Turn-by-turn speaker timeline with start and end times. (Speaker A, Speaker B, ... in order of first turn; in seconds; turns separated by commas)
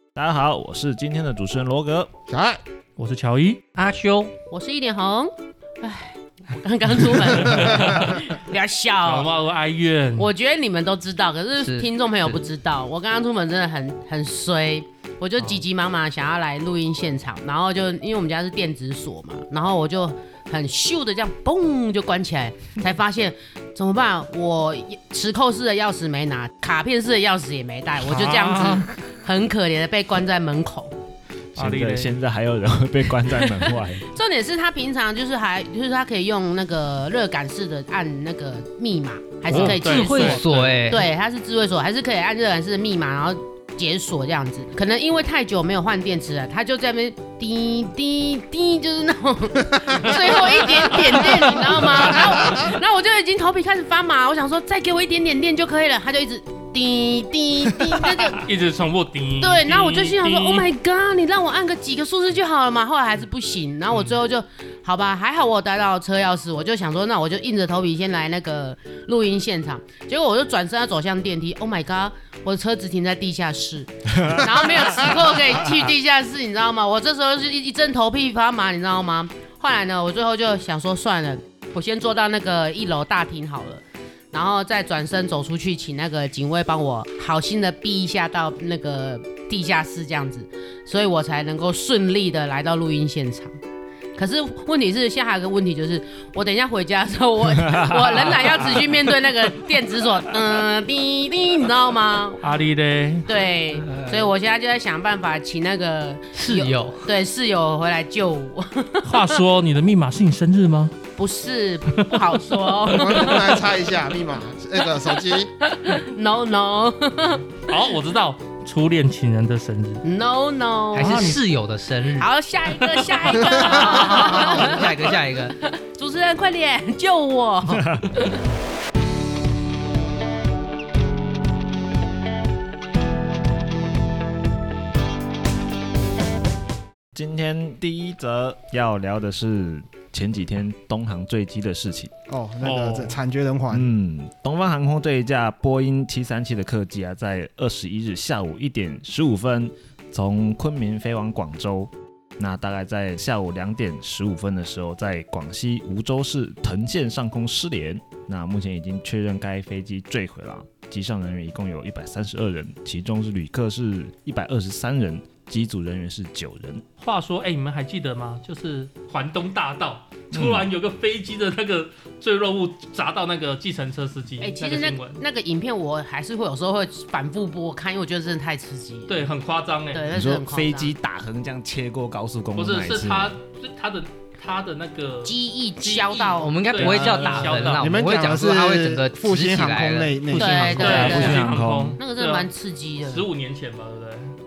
Speaker A: 0.1-2.1, Speaker B: 2.3-2.6, Speaker C: 3.0-3.6, Speaker D: 3.7-4.3, Speaker E: 4.5-9.3, Speaker C: 7.4-8.2, Speaker B: 7.5-7.8, Speaker C: 9.0-10.3, Speaker E: 10.2-30.9, Speaker D: 11.6-12.4, Speaker C: 28.0-28.9, Speaker A: 31.5-34.0, Speaker C: 31.6-32.1, Speaker E: 33.2-58.5, Speaker C: 39.5-40.8, Speaker D: 39.5-41.1, Speaker C: 50.0-52.7, Speaker C: 58.3-60.7, Speaker E: 59.4-93.6, Speaker C: 63.9-64.2, Speaker A: 74.2-74.4, Speaker E: 94.2-102.4, Speaker A: 97.6-98.0, Speaker C: 102.4-103.3, Speaker E: 103.2-109.3, Speaker D: 106.3-107.1, Speaker C: 109.0-111.0, Speaker E: 111.2-113.7, Speaker C: 112.0-113.6, Speaker B: 112.9-115.5, Speaker E: 115.7-117.5, Speaker C: 117.6-120.0, Speaker E: 120.0-121.4, Speaker D: 120.9-122.3, Speaker E: 122.2-128.0, Speaker C: 122.8-123.5, Speaker B: 123.3-124.2, Speaker D: 123.6-125.5, Speaker A: 127.8-128.1, Speaker A: 137.1-142.1, Speaker B: 142.3-143.9, Speaker C: 142.6-143.2, Speaker A: 143.7-166.8, Speaker C: 167.0-175.2, Speaker A: 170.3-170.7, Speaker E: 174.4-179.3, Speaker C: 179.1-180.1, Speaker E: 179.9-180.9, Speaker A: 180.1-183.4, Speaker C: 182.6-187.9, Speaker E: 185.2-186.6, Speaker D: 186.4-191.0, Speaker A: 186.8-187.6, Speaker B: 187.8-191.1, Speaker E: 190.3-193.3, Speaker C: 190.6-192.5, Speaker A: 190.8-192.0, Speaker C: 193.0-194.3